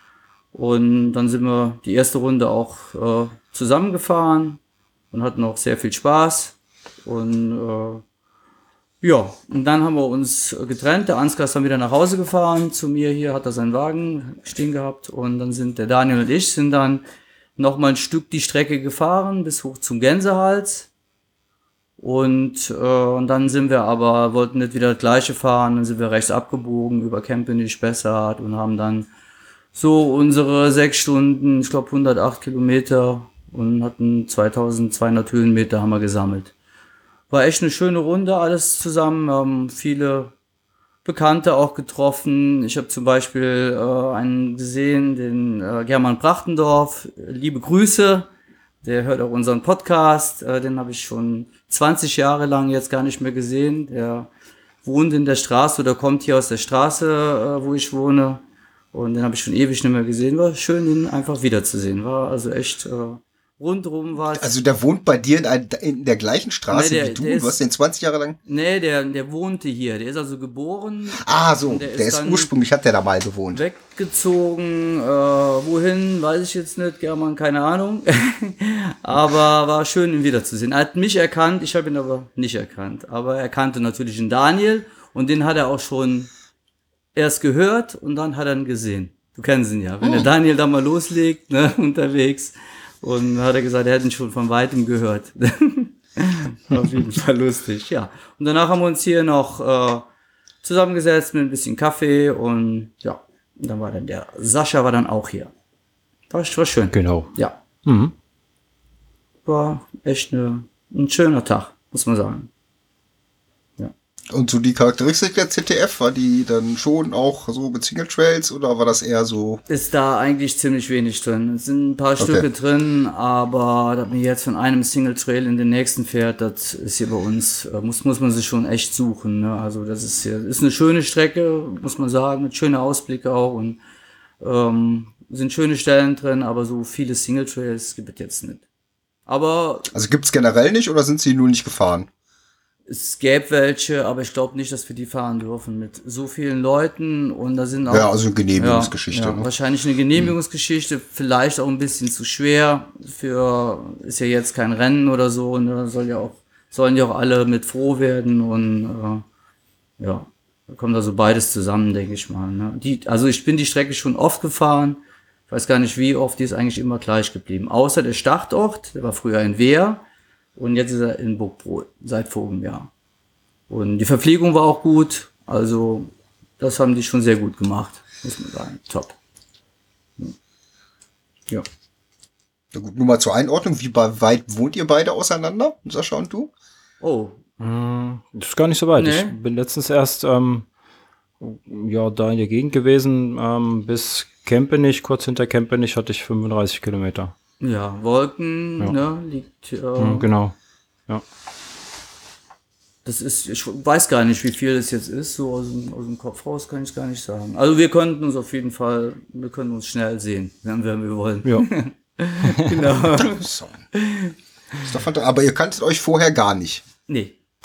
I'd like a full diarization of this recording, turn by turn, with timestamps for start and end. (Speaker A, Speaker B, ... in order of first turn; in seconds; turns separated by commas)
Speaker A: 0.5-4.6, Speaker A: 5.1-8.0, Speaker A: 9.0-17.0, Speaker A: 17.6-20.9, Speaker A: 22.0-29.1, Speaker A: 29.8-36.5, Speaker A: 37.3-40.3, Speaker A: 41.0-48.3, Speaker A: 48.8-54.3, Speaker A: 54.8-58.4, Speaker A: 58.9-64.5, Speaker B: 64.3-68.4, Speaker A: 66.7-67.6, Speaker A: 68.5-72.5, Speaker B: 71.2-73.6, Speaker A: 73.5-86.3, Speaker A: 87.2-100.0, Speaker A: 100.6-105.5, Speaker A: 106.3-107.6, Speaker C: 106.9-107.3, Speaker C: 107.8-108.1, Speaker A: 109.5-112.5, Speaker B: 114.3-119.6, Speaker A: 119.7-133.8, Speaker B: 122.2-122.5, Speaker A: 134.4-138.7, Speaker A: 139.3-139.9, Speaker B: 139.9-142.1, Speaker A: 142.9-159.2, Speaker B: 147.9-149.5, Speaker A: 160.0-170.0, Speaker A: 170.6-172.9, Speaker A: 173.7-179.2, Speaker B: 182.7-186.5, Speaker A: 187.0-187.4, Speaker C: 187.6-190.7, Speaker A: 189.0-189.4, Speaker C: 191.4-197.3, Speaker A: 197.6-200.3, Speaker C: 200.0-200.6, Speaker A: 203.1-214.9, Speaker C: 212.4-212.7, Speaker B: 213.1-213.8, Speaker B: 214.8-216.8, Speaker A: 217.1-217.3